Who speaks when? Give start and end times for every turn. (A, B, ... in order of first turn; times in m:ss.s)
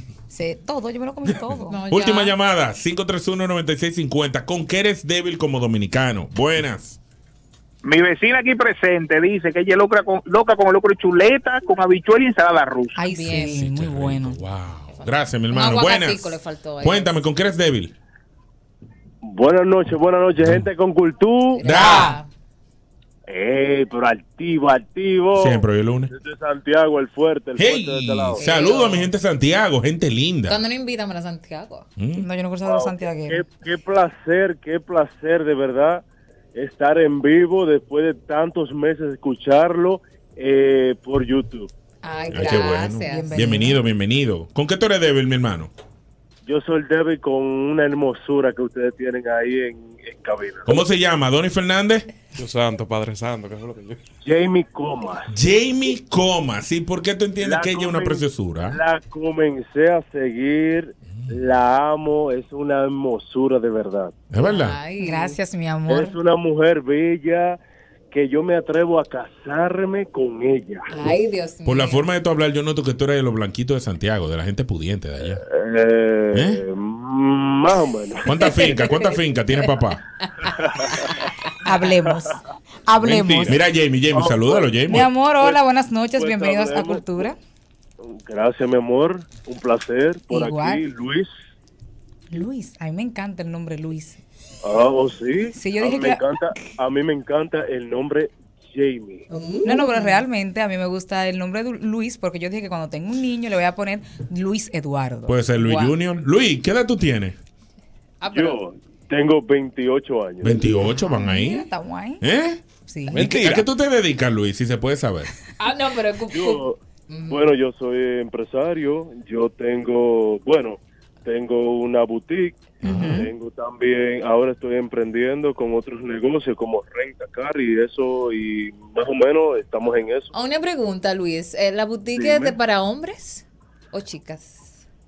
0:00.3-0:01.8 A
0:01.3-0:07.0 B
0:01.7-0:02.3 C
0:07.8-0:13.0 D
0:13.0-0:14.4 A
0:13.1-0:13.5 C
0:13.4-0:17.9 B
0:15.5-0:17.1 C
0:19.2-0:22.0 E
0:20.4-0:20.7 B
0:21.6-0:22.3 C
0:21.6-0:22.2 B
0:21.7-0:22.2 A
0:23.3-0:28.4 E
0:25.4-0:26.1 B
0:27.6-0:30.6 B
0:28.4-0:29.1 C
0:30.5-0:31.9 C
0:32.0-0:32.3 B
0:32.1-0:33.5 A
0:32.6-0:36.0 E
0:36.6-0:41.7 E
0:42.0-0:43.3 C
0:42.3-0:45.7 B
0:43.0-0:43.8 A
0:46.4-0:50.9 E
0:50.7-0:52.1 B
0:52.4-0:54.0 F
0:54.2-0:55.4 E
0:55.3-0:58.8 B
0:57.4-1:04.2 E
1:04.3-1:04.8 B
1:04.4-1:05.4 C
1:05.0-1:06.2 A
1:05.9-1:07.6 E
1:08.1-1:10.9 E
1:10.9-1:12.0 C
1:11.6-1:15.4 B
1:15.5-1:18.5 E
1:16.3-1:16.6 B
1:18.2-1:20.0 B
1:18.4-1:19.1 C
1:20.6-1:21.1 E
1:21.6-1:23.6 A
1:23.0-1:23.5 F
1:23.5-1:25.1 B
1:24.1-1:24.8 E
1:24.8-1:27.4 A
1:26.2-1:27.3 E
1:28.0-1:31.3 E
1:30.3-1:30.8 A
1:32.3-1:34.2 A
1:34.6-1:39.2 E
1:35.5-1:36.2 A
1:39.3-1:40.2 C
1:39.6-1:45.5 A
1:45.3-1:47.4 B
1:45.6-1:45.9 C
1:48.2-1:48.6 C
1:48.3-1:50.8 E
1:50.4-1:51.7 B
1:50.9-1:52.2 A
1:52.2-1:55.3 B
1:52.8-1:53.3 A
1:53.1-1:53.6 F
1:55.6-1:57.5 C
1:56.3-2:10.3 E
2:02.8-2:03.3 B
2:02.8-2:03.3 A
2:10.3-2:14.7 C
2:12.2-2:12.6 E